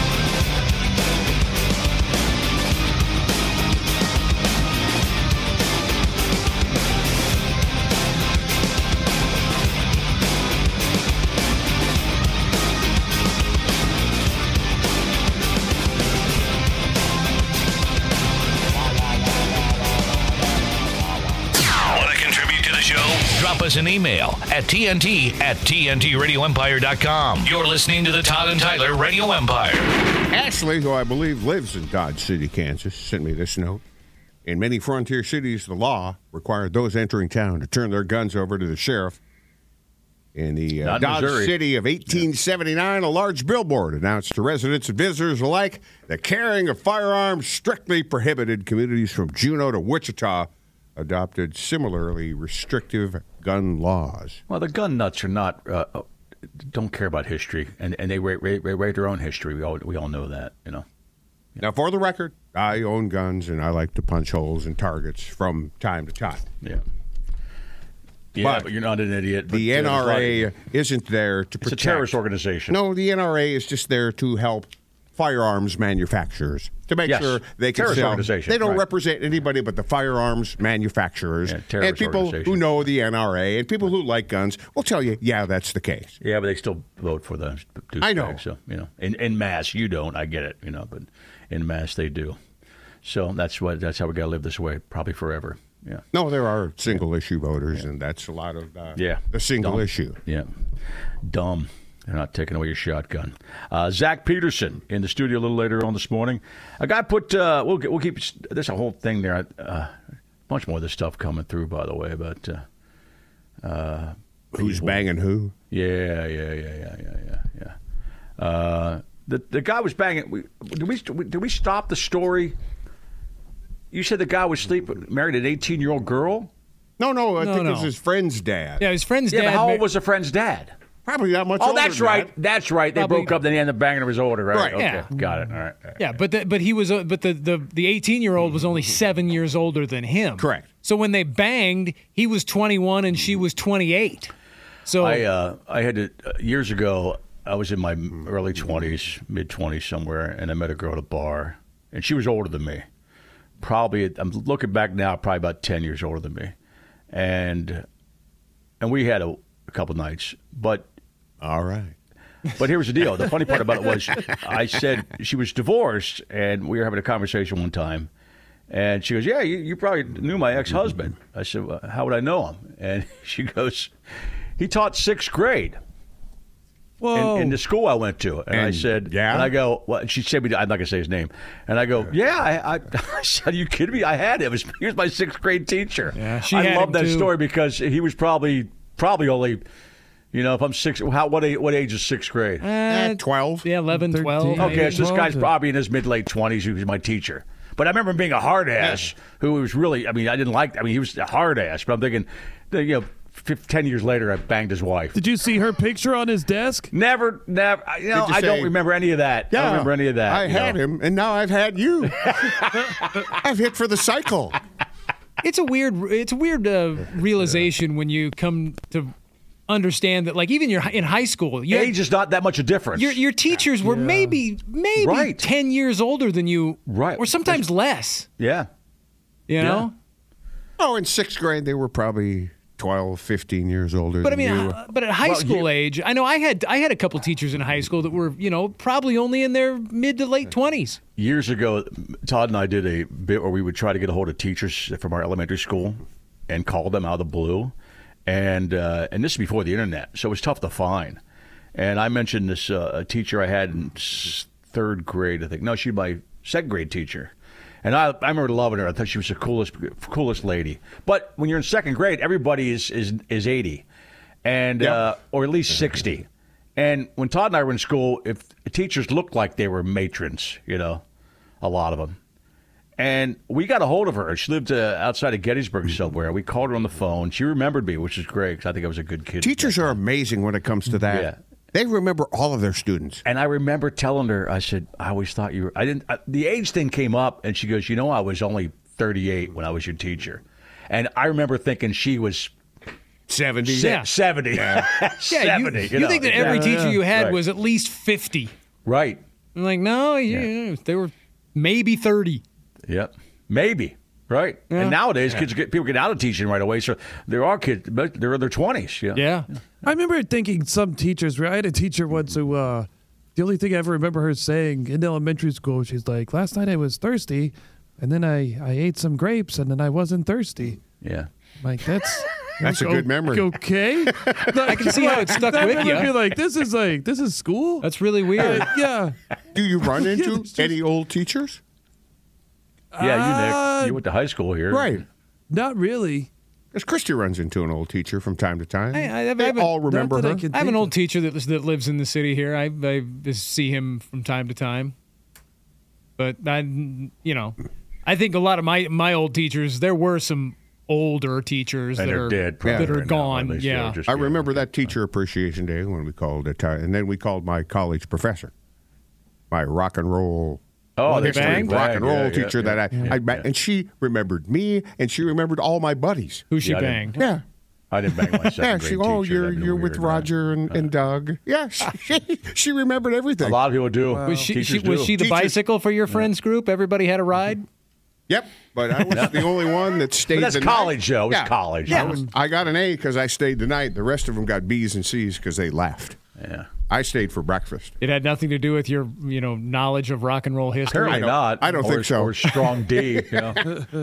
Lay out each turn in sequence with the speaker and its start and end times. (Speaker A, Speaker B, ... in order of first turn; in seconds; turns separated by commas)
Speaker A: 21.9-29.9, Speaker B: 30.3-33.8, Speaker B: 34.4-39.2, Speaker B: 40.3-54.4, Speaker C: 40.8-41.5, Speaker C: 54.5-56.0, Speaker C: 56.6-60.8, Speaker B: 61.6-66.4, Speaker C: 68.3-70.5, Speaker B: 68.4-68.7, Speaker B: 69.5-72.2, Speaker C: 71.6-72.8, Speaker B: 72.7-86.2, Speaker C: 77.0-78.8, Speaker C: 81.4-82.8, Speaker C: 86.2-92.4, Speaker B: 88.0-88.4, Speaker C: 93.0-96.0, Speaker B: 96.1-100.2, Speaker C: 99.0-100.5, Speaker C: 101.2-109.9, Speaker C: 110.5-112.6, Speaker C: 113.6-115.0, Speaker B: 114.5-115.5, Speaker C: 115.7-117.7, Speaker C: 118.4-122.5, Speaker C: 123.9-126.5, Speaker B: 127.0-128.8, Speaker D: 127.4-127.9, Speaker D: 128.8-129.8, Speaker C: 129.3-130.7, Speaker B: 131.1-132.3, Speaker C: 131.6-136.0, Speaker D: 132.9-133.3, Speaker B: 134.5-134.8, Speaker D: 134.8-135.1, Speaker D: 136.0-144.3, Speaker B: 140.4-140.7, Speaker D: 144.8-145.2, Speaker C: 145.0-152.8, Speaker C: 153.6-156.5, Speaker C: 157.1-157.8, Speaker C: 158.8-160.9, Speaker B: 161.4-161.9, Speaker C: 162.6-168.1, Speaker C: 168.7-173.9, Speaker C: 174.6-175.8, Speaker E: 177.0-177.6, Speaker C: 177.1-189.6, Speaker B: 178.5-179.5, Speaker D: 186.1-187.3, Speaker C: 190.3-192.7, Speaker D: 192.6-195.0, Speaker B: 192.9-193.7, Speaker E: 193.9-195.5, Speaker C: 194.6-205.2, Speaker B: 198.8-199.1, Speaker E: 205.1-206.9, Speaker C: 206.9-210.8, Speaker B: 208.1-208.7, Speaker B: 209.5-212.3, Speaker C: 212.2-212.9, Speaker B: 213.2-214.6, Speaker D: 215.4-219.1, Speaker D: 219.7-221.9, Speaker C: 221.7-223.2, Speaker D: 222.9-228.3, Speaker E: 223.8-224.4, Speaker C: 225.0-225.5, Speaker C: 226.9-227.6, Speaker C: 228.4-228.7, Speaker D: 229.5-229.9, Speaker C: 229.6-229.9, Speaker B: 230.8-234.8, Speaker D: 234.2-241.0, Speaker C: 235.2-235.7, Speaker C: 241.2-247.7, Speaker C: 248.2-251.2, Speaker C: 251.7-257.3, Speaker C: 257.8-263.9, Speaker C: 264.4-271.0, Speaker C: 271.6-272.2, Speaker C: 273.0-280.0, Speaker B: 279.4-283.2, Speaker C: 281.1-281.4, Speaker C: 283.2-292.5, Speaker B: 293.3-294.9, Speaker C: 293.6-297.4, Speaker D: 293.8-294.1, Speaker D: 295.3-298.5, Speaker E: 296.4-297.0, Speaker C: 298.9-299.2, Speaker D: 299.5-302.4, Speaker C: 302.9-309.4, Speaker D: 304.7-305.0, Speaker D: 309.1-309.5, Speaker E: 309.9-320.8, Speaker C: 321.0-321.3, Speaker E: 321.6-329.1, Speaker B: 322.6-323.5, Speaker B: 324.1-324.7, Speaker D: 324.7-326.1, Speaker D: 327.8-328.7, Speaker B: 329.5-331.6, Speaker E: 330.0-330.7, Speaker E: 332.9-334.0, Speaker C: 333.0-335.0, Speaker B: 334.7-335.0, Speaker E: 335.5-336.3, Speaker B: 336.7-340.4, Speaker D: 338.9-339.8, Speaker E: 339.9-340.9, Speaker D: 340.5-344.9, Speaker D: 346.2-354.0, Speaker C: 352.0-354.9, Speaker B: 352.6-352.9, Speaker B: 354.1-358.5, Speaker B: 359.5-366.4, Speaker C: 361.0-363.5, Speaker D: 361.1-361.8, Speaker D: 366.5-367.2, Speaker C: 366.6-367.2, Speaker C: 367.9-370.9, Speaker B: 368.2-373.6, Speaker C: 373.4-375.2, Speaker E: 374.1-374.5, Speaker D: 374.2-377.6, Speaker B: 375.2-375.6, Speaker B: 378.3-386.2, Speaker C: 379.1-379.5, Speaker C: 380.3-382.2, Speaker D: 381.9-382.2, Speaker C: 386.4-386.7, Speaker B: 386.9-387.9, Speaker D: 388.0-391.3, Speaker C: 390.9-393.6, Speaker B: 391.1-393.6